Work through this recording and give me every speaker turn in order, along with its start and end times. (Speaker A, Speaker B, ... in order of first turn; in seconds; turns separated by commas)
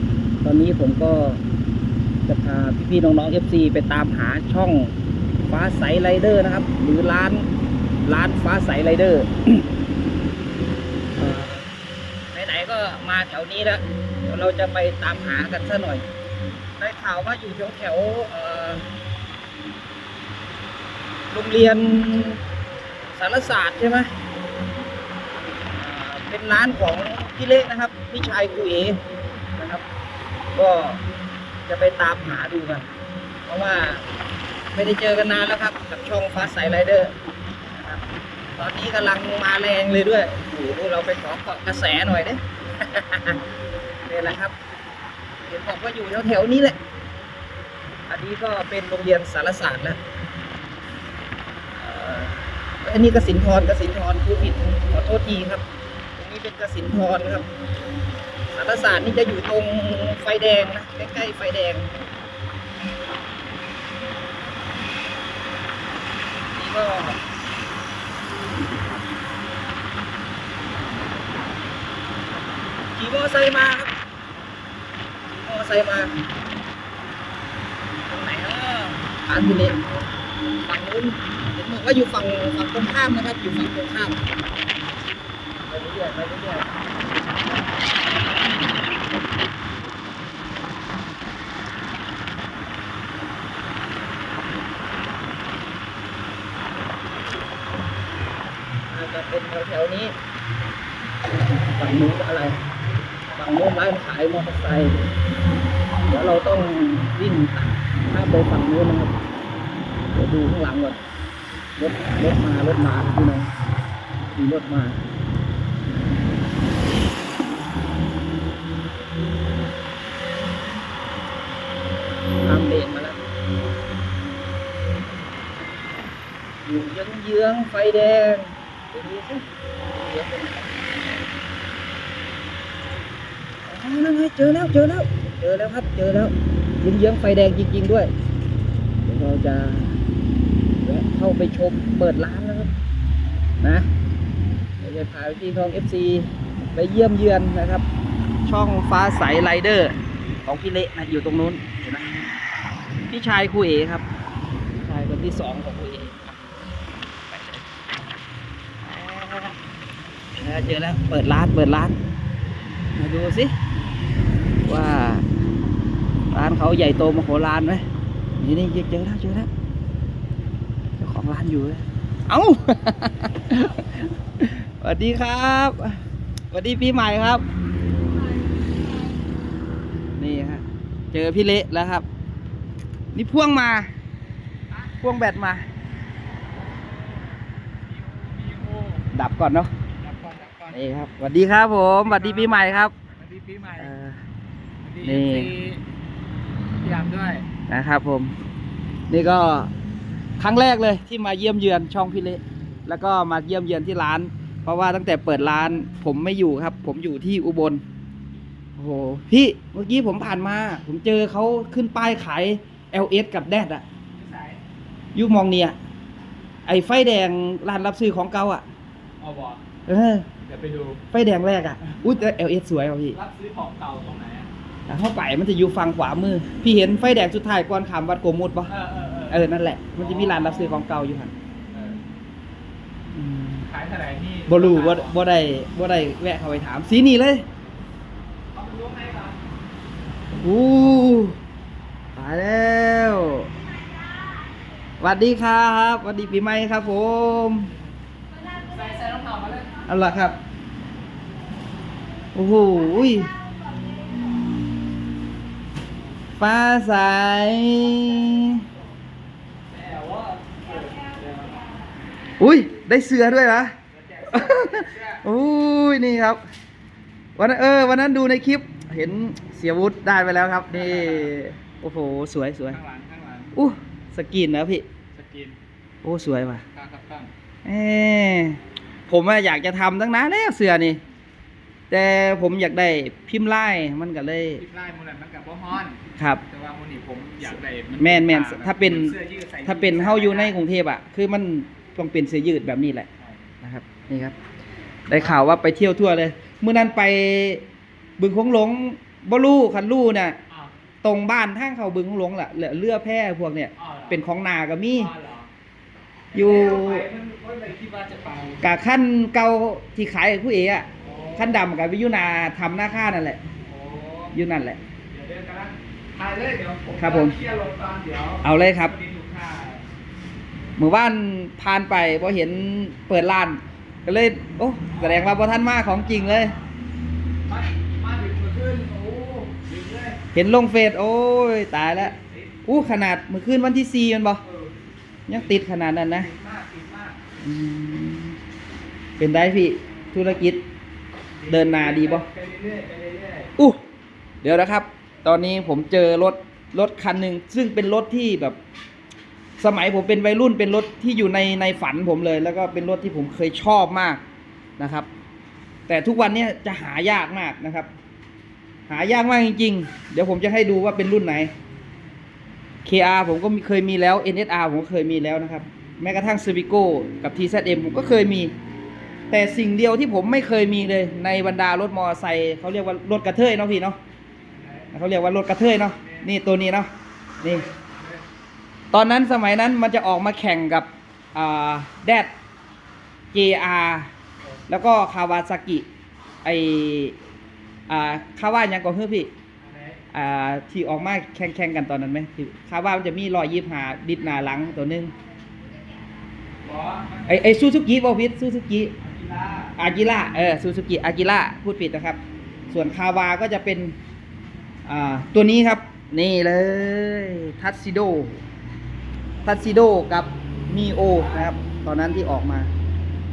Speaker A: 0.4-1.4, Speaker A: 2.2-4.9, Speaker A: 5.5-7.5, Speaker A: 8.0-9.6, Speaker A: 11.2-11.7, Speaker A: 12.3-16.1, Speaker A: 16.8-18.9, Speaker A: 21.3-22.4, Speaker A: 23.1-24.1, Speaker A: 25.8-29.0, Speaker A: 29.6-29.8, Speaker A: 30.5-31.0, Speaker A: 31.7-32.9, Speaker A: 33.5-34.0, Speaker A: 34.7-37.1, Speaker A: 37.7-38.0, Speaker A: 38.6-43.4, Speaker A: 44.0-44.5, Speaker A: 45.5-46.8, Speaker A: 48.1-50.0, Speaker A: 51.8-55.6, Speaker A: 56.2-57.5, Speaker A: 58.5-61.9, Speaker A: 66.5-67.2, Speaker A: 72.9-73.9, Speaker A: 75.3-76.1, Speaker A: 78.1-79.9, Speaker A: 80.6-84.2, Speaker A: 85.6-86.9, Speaker A: 98.9-100.1, Speaker A: 101.3-102.6, Speaker A: 103.3-105.0, Speaker A: 106.1-109.2, Speaker A: 110.1-111.0, Speaker A: 111.8-113.5, Speaker A: 114.2-115.0, Speaker A: 122.4-123.2, Speaker A: 126.6-131.1, Speaker A: 133.7-138.1, Speaker A: 139.1-140.0, Speaker A: 140.8-142.7, Speaker A: 143.6-143.9, Speaker A: 144.8-147.8, Speaker A: 148.4-149.9, Speaker A: 150.4-152.3, Speaker A: 153.1-154.0, Speaker A: 154.8-156.4, Speaker A: 157.3-157.7, Speaker A: 158.8-159.5, Speaker A: 160.4-161.9, Speaker A: 163.0-163.5, Speaker A: 164.6-165.2, Speaker A: 166.3-167.8, Speaker A: 168.4-169.5, Speaker A: 171.0-177.4, Speaker A: 180.2-182.0, Speaker A: 183.1-183.9, Speaker A: 185.0-185.7, Speaker B: 187.9-189.1, Speaker A: 189.1-189.7, Speaker B: 190.0-190.8, Speaker A: 190.7-192.9, Speaker B: 192.0-192.6, Speaker B: 193.2-193.9, Speaker A: 193.8-194.2, Speaker B: 194.8-195.8, Speaker A: 195.0-195.5, Speaker B: 196.8-197.4, Speaker A: 197.7-198.3, Speaker A: 199.1-199.7, Speaker A: 200.4-207.8, Speaker A: 208.8-213.8, Speaker B: 214.2-214.6, Speaker A: 215.1-215.8, Speaker A: 216.7-218.6, Speaker B: 219.2-219.6, Speaker A: 219.8-220.3, Speaker B: 220.4-221.0, Speaker A: 221.1-223.2, Speaker B: 223.1-224.5, Speaker A: 224.9-228.7, Speaker B: 228.7-229.4, Speaker A: 229.3-231.3, Speaker B: 230.0-230.8, Speaker B: 231.7-232.0, Speaker A: 233.1-233.7, Speaker B: 233.7-235.1, Speaker A: 234.5-237.4, Speaker B: 238.5-239.4, Speaker A: 240.3-241.4, Speaker A: 242.2-243.5, Speaker A: 245.0-247.7, Speaker B: 248.6-249.7, Speaker A: 249.8-250.3, Speaker A: 252.3-253.3, Speaker A: 256.4-258.6, Speaker B: 259.7-261.7, Speaker A: 262.4-263.7, Speaker B: 263.9-265.2, Speaker A: 264.3-266.4, Speaker A: 267.4-272.8, Speaker B: 270.7-271.3, Speaker B: 272.7-273.5, Speaker A: 273.5-274.8, Speaker B: 275.1-275.6, Speaker A: 276.0-276.6, Speaker B: 276.7-277.3, Speaker A: 277.6-281.0, Speaker A: 281.9-284.6, Speaker B: 284.6-290.5, Speaker A: 286.2-286.4, Speaker A: 288.0-293.1, Speaker A: 293.6-294.3, Speaker A: 295.1-297.6, Speaker A: 298.2-300.4, Speaker A: 301.0-305.1, Speaker B: 303.8-304.2, Speaker B: 304.9-305.5, Speaker B: 306.3-308.6, Speaker A: 306.3-307.1, Speaker A: 308.6-313.4, Speaker B: 311.0-311.6, Speaker B: 313.6-314.3, Speaker A: 314.3-314.8, Speaker B: 315.1-319.8, Speaker A: 317.0-317.4, Speaker A: 318.4-318.9, Speaker A: 320.8-326.6, Speaker B: 324.9-325.2, Speaker B: 327.5-330.2, Speaker A: 330.3-334.4, Speaker B: 334.4-334.7, Speaker A: 335.3-336.3, Speaker B: 336.2-337.2, Speaker A: 337.4-338.4, Speaker A: 339.2-340.6, Speaker B: 341.4-343.5, Speaker A: 341.5-342.2, Speaker A: 344.4-348.6, Speaker A: 349.6-354.2, Speaker A: 354.8-355.1, Speaker A: 355.9-357.9, Speaker A: 358.9-361.5, Speaker A: 362.8-368.5, Speaker A: 369.3-374.0, Speaker B: 374.5-374.9, Speaker A: 374.9-376.9, Speaker B: 375.9-376.3, Speaker A: 377.4-377.6, Speaker B: 377.4-378.2, Speaker A: 378.9-382.3, Speaker A: 383.3-384.1, Speaker A: 384.7-385.9, Speaker A: 386.4-387.1, Speaker A: 387.9-389.3, Speaker B: 389.6-390.0, Speaker A: 390.1-395.1, Speaker B: 396.6-397.3, Speaker A: 397.2-398.9, Speaker B: 399.0-399.7, Speaker A: 399.8-403.9, Speaker A: 404.9-408.4, Speaker A: 409.4-412.7